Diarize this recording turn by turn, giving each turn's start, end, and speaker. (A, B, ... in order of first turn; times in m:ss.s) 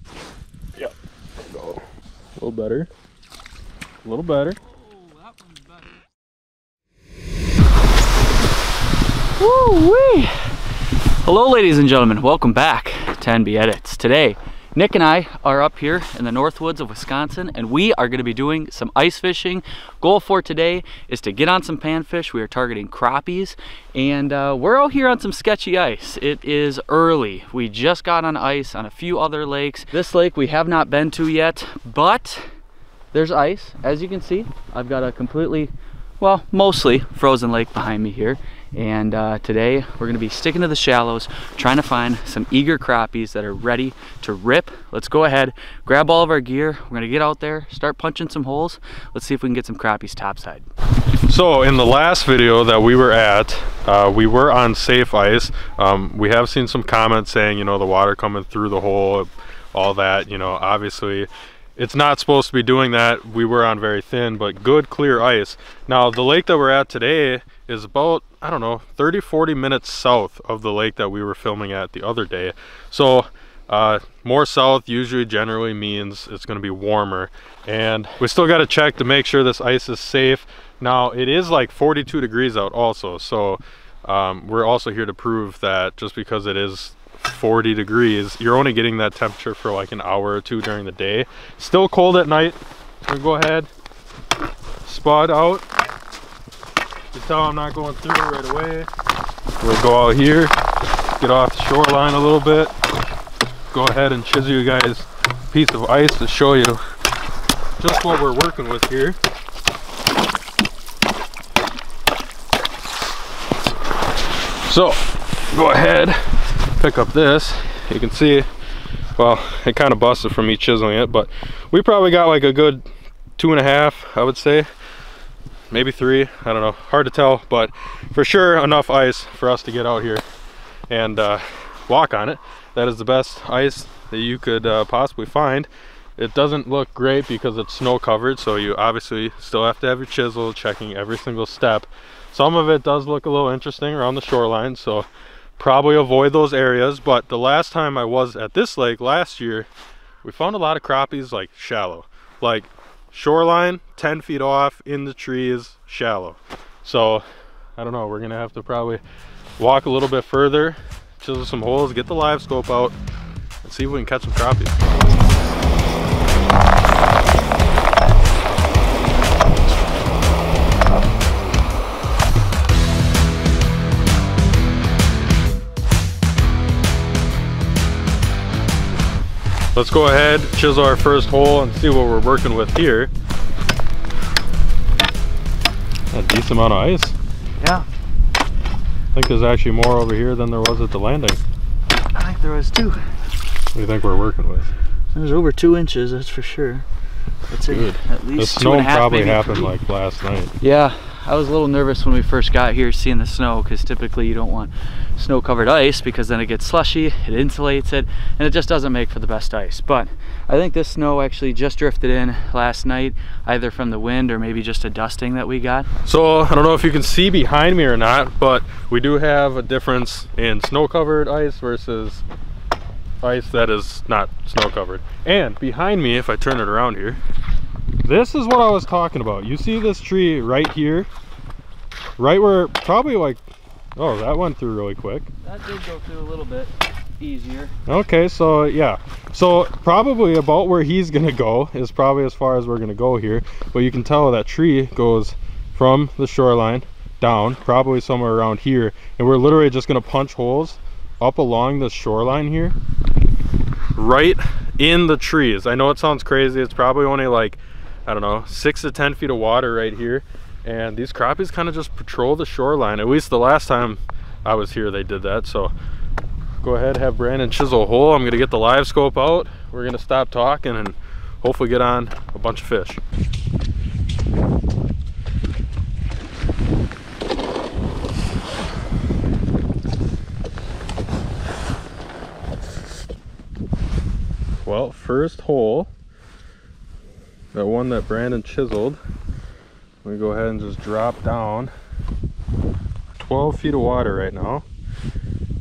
0:00.8-0:01.8 A
0:02.4-0:02.9 A
0:04.0-0:04.6 A
0:09.4-0:32.5 B
0:33.1-0:50.6 B
0:51.3-1:33.7 A
1:34.8-1:35.6 A
1:37.1-1:38.9 A
1:39.6-1:40.5 A
1:41.2-1:42.7 A
1:43.7-1:46.8 A
1:47.8-1:49.2 A
1:54.6-1:58.5 A
1:59.2-2:02.8 A
2:03.4-2:04.7 A
2:05.7-2:10.2 A
2:10.9-2:29.7 A
2:30.2-2:37.2 A
2:37.8-2:39.0 A
2:39.6-2:43.0 A
2:43.6-2:44.8 A
2:59.7-3:03.1 A
3:06.1-3:07.2 A
3:09.1-3:11.4 A
3:12.1-3:13.0 B
3:13.7-3:14.7 A
3:15.1-3:16.8 B
3:17.5-3:19.7 B
3:17.7-3:20.5 A
3:20.6-3:35.9 B
3:36.0-3:42.2 A
3:43.2-3:47.2 A
3:48.0-3:51.1 A
3:52.2-3:53.4 A
3:54.0-3:55.3 A
3:55.4-3:57.7 B
3:57.9-4:12.8 A
4:14.0-4:25.7 A
4:26.6-4:33.0 A
4:44.6-4:45.9 A
4:47.5-4:49.0 A
4:50.0-4:51.7 A
4:53.2-4:54.6 A